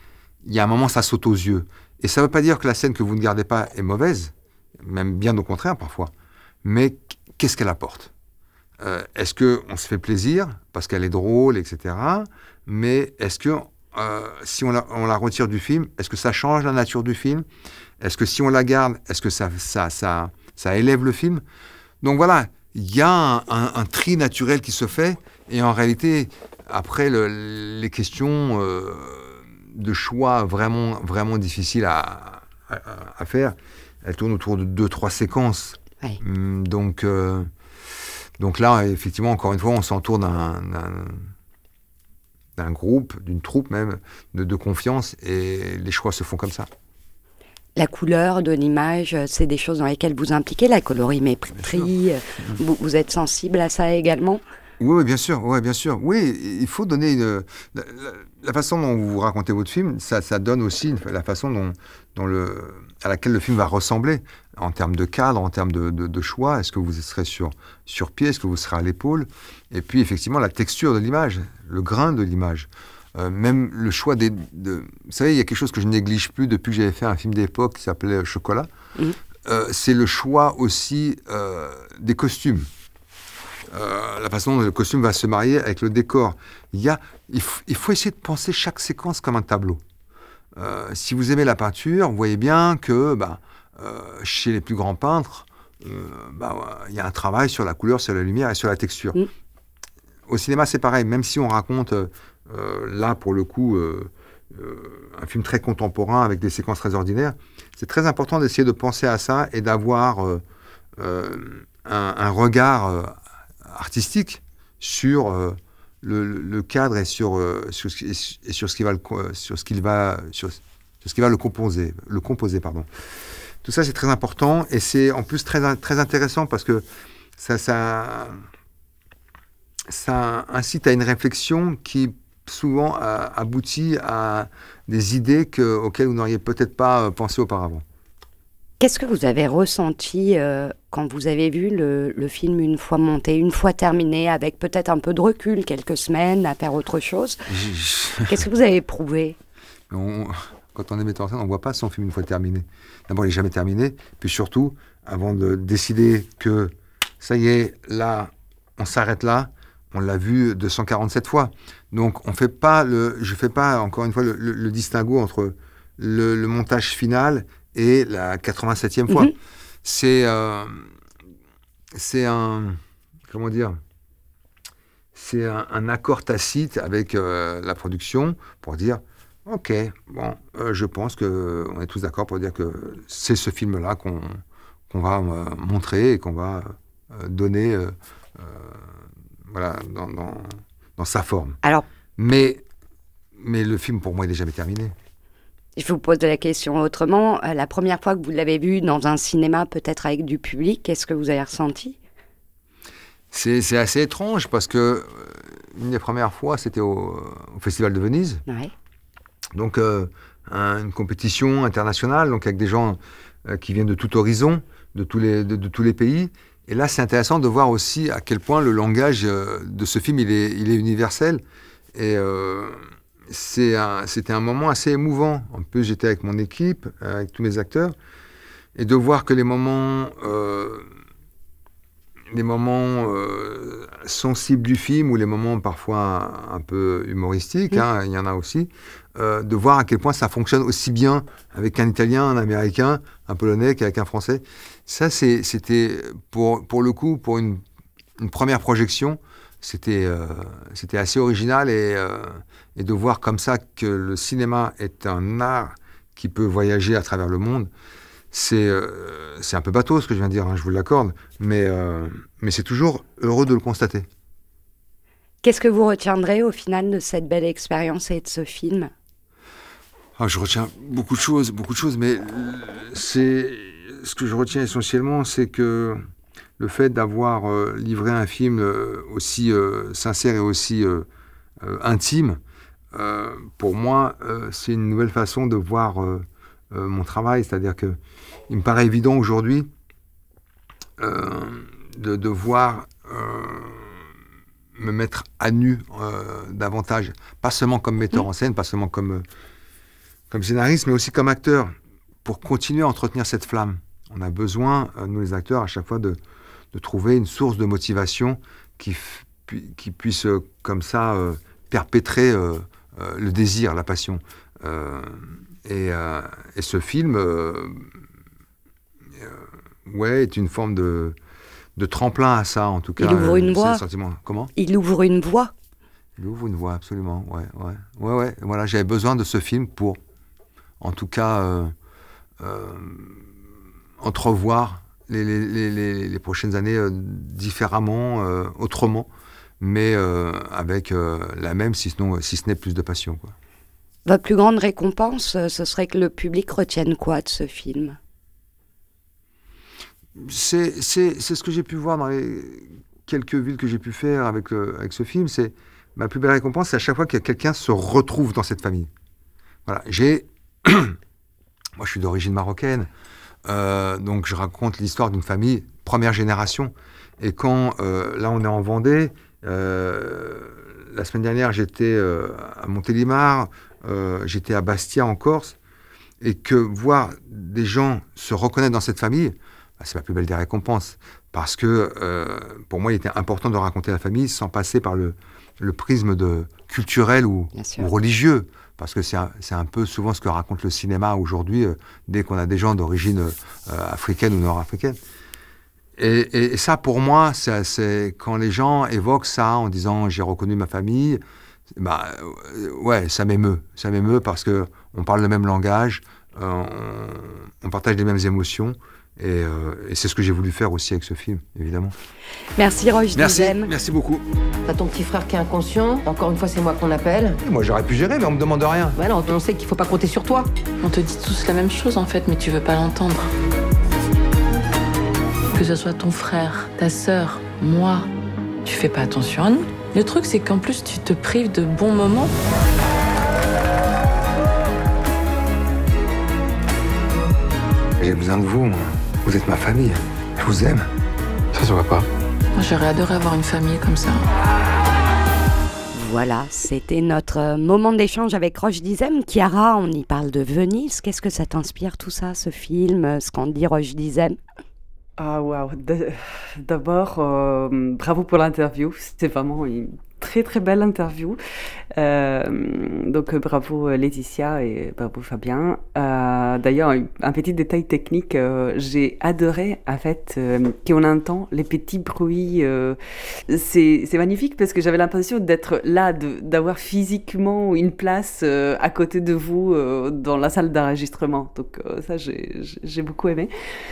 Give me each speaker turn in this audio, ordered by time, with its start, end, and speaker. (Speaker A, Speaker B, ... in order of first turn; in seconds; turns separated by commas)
Speaker A: 0.4-6.1, Speaker A: 6.6-8.1, Speaker A: 8.8-17.4, Speaker A: 18.0-21.4, Speaker A: 22.0-37.5, Speaker A: 38.4-41.3, Speaker A: 42.6-46.7, Speaker B: 47.8-54.4, Speaker A: 51.6-51.9, Speaker A: 54.8-78.7, Speaker A: 79.5-82.7, Speaker A: 83.7-89.8, Speaker A: 90.6-99.2, Speaker A: 100.3-110.4, Speaker A: 111.0-122.9, Speaker A: 123.6-126.8, Speaker A: 127.4-128.4, Speaker A: 129.9-137.8, Speaker B: 138.8-147.4, Speaker A: 147.5-148.4, Speaker B: 148.3-149.4, Speaker A: 149.9-169.3, Speaker A: 169.8-170.9, Speaker A: 171.9-173.8, Speaker A: 175.1-188.9, Speaker A: 189.5-191.6, Speaker A: 192.2-192.6, Speaker A: 193.4-194.9, Speaker B: 195.8-202.0, Speaker A: 203.3-208.4, Speaker B: 208.5-208.7, Speaker A: 209.6-221.4, Speaker A: 221.9-227.9, Speaker A: 228.8-230.9, Speaker A: 232.3-247.6, Speaker A: 248.2-257.7, Speaker A: 258.3-264.1, Speaker B: 265.4-268.9, Speaker A: 270.2-276.0, Speaker A: 276.6-281.1, Speaker A: 281.6-282.4, Speaker A: 282.9-288.0, Speaker A: 288.5-289.7, Speaker A: 291.0-294.0, Speaker A: 294.8-299.2, Speaker A: 300.3-301.7, Speaker A: 302.2-306.2, Speaker A: 306.7-317.9, Speaker A: 319.2-321.2, Speaker A: 321.8-324.5, Speaker B: 323.0-323.8, Speaker B: 324.6-325.5, Speaker A: 326.2-330.0, Speaker A: 330.8-331.7, Speaker A: 332.4-333.2, Speaker A: 334.0-339.1, Speaker A: 339.6-343.3, Speaker B: 344.1-348.0, Speaker A: 350.2-358.9, Speaker A: 359.7-361.0, Speaker A: 361.8-362.9, Speaker A: 363.5-375.6, Speaker A: 376.2-395.0, Speaker B: 387.6-387.9, Speaker A: 396.0-401.2, Speaker A: 401.8-411.9, Speaker B: 412.6-413.7, Speaker A: 413.1-414.2, Speaker C: 414.7-417.4, Speaker A: 417.4-419.0, Speaker C: 418.9-420.5, Speaker D: 420.8-423.3, Speaker D: 425.5-428.1, Speaker D: 428.6-432.3, Speaker A: 438.0-440.9, Speaker A: 441.6-442.1, Speaker D: 442.6-444.3, Speaker B: 445.9-454.4, Speaker E: 455.2-461.4, Speaker E: 462.0-483.5